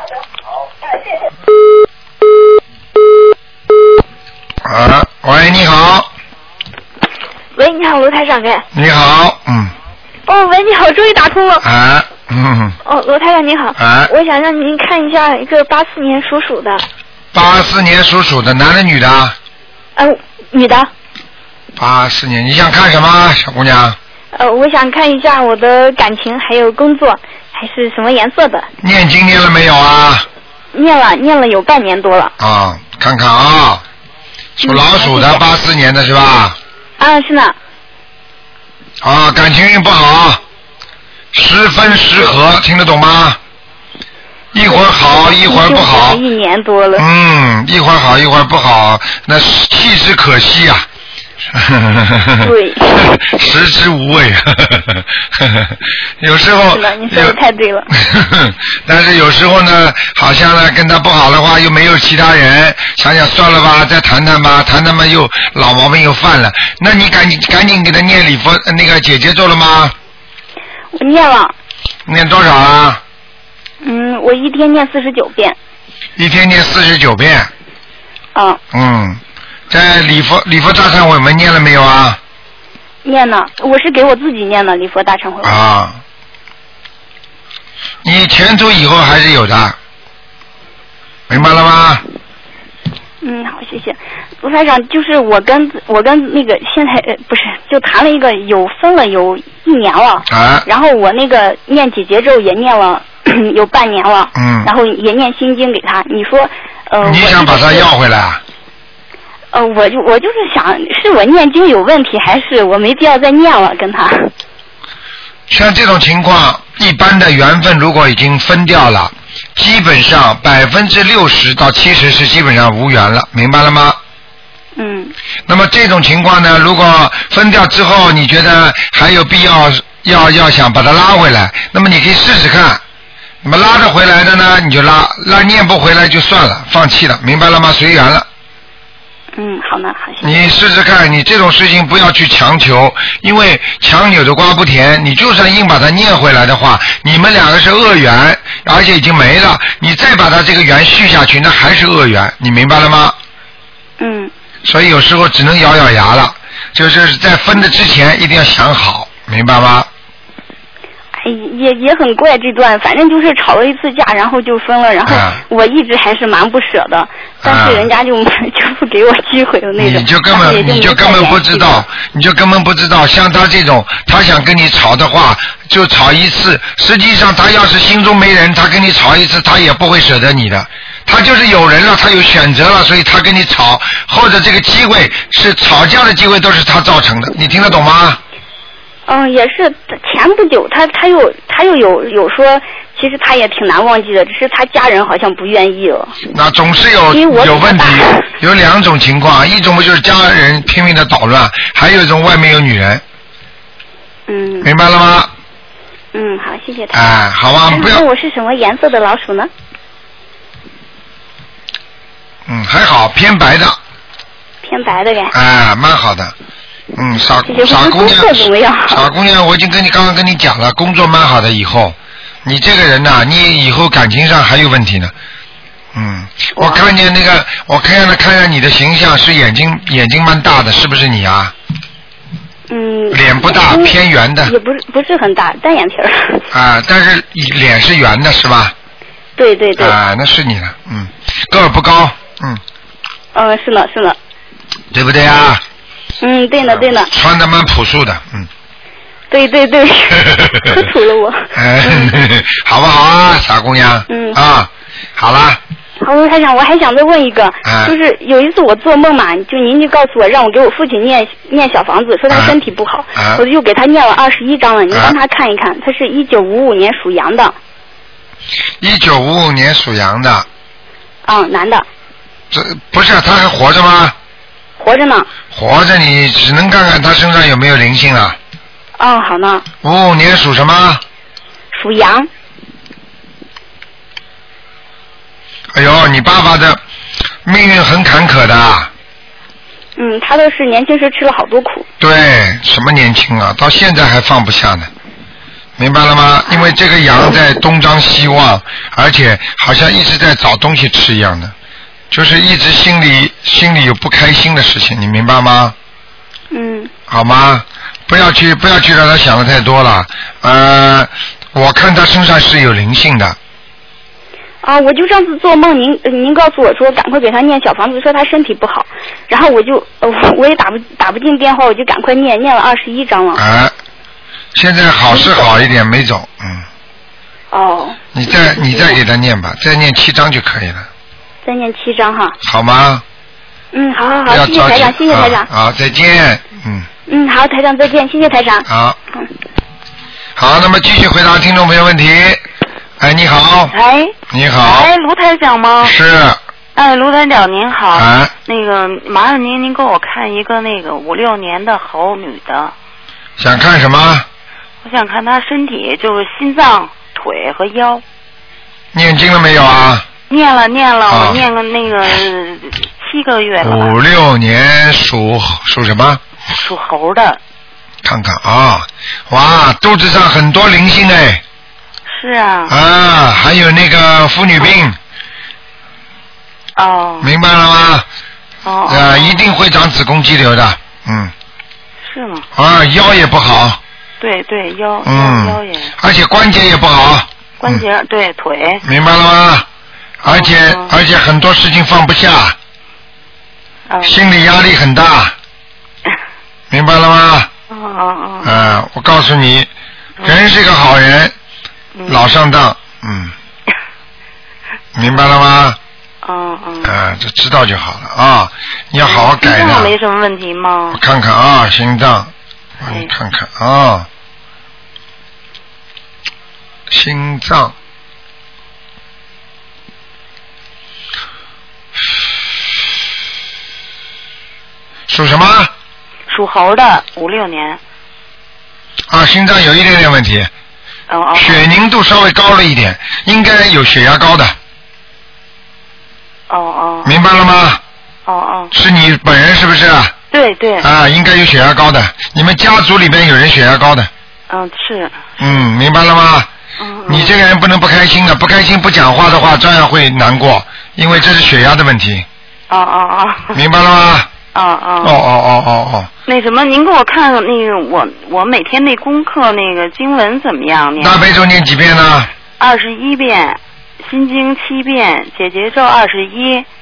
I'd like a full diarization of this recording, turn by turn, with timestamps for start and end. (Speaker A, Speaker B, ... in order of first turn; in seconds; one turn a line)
Speaker A: 4.6-6.1
Speaker B: 7.6-8.6
Speaker A: 8.7-9.7
Speaker B: 10.3-11.6
Speaker A: 11.6-12.8
Speaker B: 12.8-16.8
Speaker A: 13.7-14.1
Speaker A: 17.3-19.4
Speaker B: 20.0-20.9
Speaker A: 21.8-24.0
Speaker B: 24.3-28.6
Speaker A: 28.8-30.3
Speaker B: 30.7-32.3
Speaker A: 32.4-33.8
Speaker A: 34.6-36.6
Speaker B: 34.6-35.4
Speaker B: 37.0-37.5
Speaker A: 39.0-40.4
Speaker A: 41.3-43.4
Speaker A: 44.5-46.2
Speaker B: 45.4-47.0
Speaker A: 47.0-50.9
Speaker A: 51.5-57.4
Speaker B: 52.4-53.1
Speaker B: 56.7-57.9
Speaker A: 57.9-69.9
Speaker B: 70.9-71.5
Speaker A: 72.1-73.0
Speaker B: 73.8-75.6
Speaker A: 76.2-77.5
Speaker B: 78.3-78.6
Speaker A: 78.7-82.2
Speaker B: 83.0-85.6
Speaker A: 85.4-86.0
Speaker A: 88.0-89.8
Speaker A: 91.3-92.0
Speaker B: 93.2-107.9
Speaker A: 100.3-100.7
Speaker A: 104.3-104.7
Speaker A: 107.0-108.4
Speaker B: 109.5-114.3
Speaker A: 115.5-124.0
Speaker B: 124.8-125.1
Speaker A: 125.5-132.8
Speaker A: 133.4-138.2
Speaker B: 139.3-140.4
Speaker A: 140.2-153.2
Speaker B: 154.0-154.3
Speaker A: 154.6-159.9
Speaker B: 161.2-171.8
Speaker A: 165.1-165.4
Speaker A: 167.4-167.9
Speaker A: 169.8-188.2
Speaker B: 189.1-196.1
Speaker A: 196.3-203.0
Speaker B: 197.1-198.2
Speaker B: 204.3-204.7
Speaker A: 204.6-205.3
Speaker B: 206.1-207.1
Speaker A: 206.9-208.0
Speaker B: 207.7-209.5
Speaker A: 212.5-213.8
Speaker B: 214.6-215.3
Speaker A: 215.3-216.3
Speaker A: 216.9-225.1
Speaker B: 217.4-219.0
Speaker A: 225.9-231.5
Speaker B: 226.6-226.8
Speaker B: 232.7-236.4
Speaker A: 233.1-234.5
Speaker A: 236.5-238.7
Speaker B: 239.4-240.0
Speaker A: 239.8-242.6
Speaker B: 243.3-244.2
Speaker A: 244.9-245.6
Speaker B: 246.2-247.1
Speaker A: 246.6-248.5
Speaker B: 249.3-252.2
Speaker A: 250.3-250.6
Speaker A: 251.5-255.6
Speaker B: 254.1-254.4
Speaker B: 256.0-267.6
Speaker A: 257.6-257.9
Speaker A: 262.3-262.6
Speaker A: 263.1-263.4
Speaker A: 264.9-265.1
Speaker A: 268.8-270.5
Speaker B: 271.2-271.9
Speaker A: 272.5-274.1
Speaker B: 274.8-275.3
Speaker A: 275.5-278.4
Speaker B: 279.0-279.6
Speaker A: 279.8-281.0
Speaker B: 281.7-282.3
Speaker A: 285.7-286.8
Speaker A: 287.4-288.9
Speaker B: 290.0-291.9
Speaker A: 292.0-294.9
Speaker A: 295.8-301.5
Speaker A: 302.1-305.7
Speaker B: 306.5-306.9
Speaker A: 307.1-313.4
Speaker B: 314.6-323.4
Speaker A: 323.4-323.7
Speaker A: 324.5-326.6
Speaker B: 327.5-328.0
Speaker A: 328.1-330.9
Speaker B: 331.4-332.4
Speaker A: 332.4-333.0
Speaker B: 333.7-335.5
Speaker A: 334.3-336.9
Speaker B: 337.1-339.3
Speaker A: 338.7-339.0
Speaker A: 340.4-342.4
Speaker A: 343.0-343.7
Speaker C: 343.7-345.9
Speaker A: 344.3-344.9
Speaker A: 345.8-346.4
Speaker C: 346.8-352.7
Speaker A: 347.9-348.3
Speaker A: 353.4-354.2
Speaker C: 354.8-358.0
Speaker A: 358.9-360.0
Speaker C: 360.3-363.9
Speaker A: 361.1-361.4
Speaker A: 363.6-366.2
Speaker C: 366.5-367.4
Speaker A: 368.0-371.4
Speaker C: 372.1-372.7
Speaker A: 372.7-375.0
Speaker C: 376.8-377.3
Speaker A: 377.2-378.1
Speaker C: 378.6-379.4
Speaker A: 378.9-381.3
Speaker C: 382.1-382.4
Speaker A: 382.5-383.8
Speaker C: 384.2-385.9
Speaker A: 385.0-387.8
Speaker C: 387.6-388.8
Speaker A: 388.8-389.7
Speaker A: 390.2-392.6
Speaker C: 390.3-390.9
Speaker C: 393.9-394.2
Speaker A: 394.0-395.3
Speaker A: 396.7-397.5
Speaker C: 397.7-398.8
Speaker A: 398.4-399.7
Speaker A: 400.2-401.3
Speaker C: 401.9-402.3
Speaker A: 402.1-403.3
Speaker A: 404.9-405.8
Speaker C: 406.2-406.9
Speaker A: 406.8-409.9
Speaker C: 409.0-411.0
Speaker A: 410.9-414.1
Speaker A: 416.9-417.7
Speaker A: 425.1-425.7
Speaker C: 426.3-427.8
Speaker A: 429.1-430.5
Speaker C: 431.1-431.6
Speaker A: 431.4-434.6
Speaker C: 436.5-437.1
Speaker A: 437.0-437.8
Speaker C: 438.2-438.7
Speaker A: 438.7-440.1
Speaker C: 440.3-440.9
Speaker A: 440.8-444.1
Speaker C: 444.5-445.6
Speaker A: 445.4-446.5
Speaker C: 446.8-447.4
Speaker A: 447.1-452.2
Speaker C: 452.7-453.6
Speaker A: 453.5-454.3
Speaker C: 454.5-455.2
Speaker A: 455.0-456.1
Speaker C: 456.3-461.2
Speaker A: 461.0-462.3
Speaker C: 462.6-466.6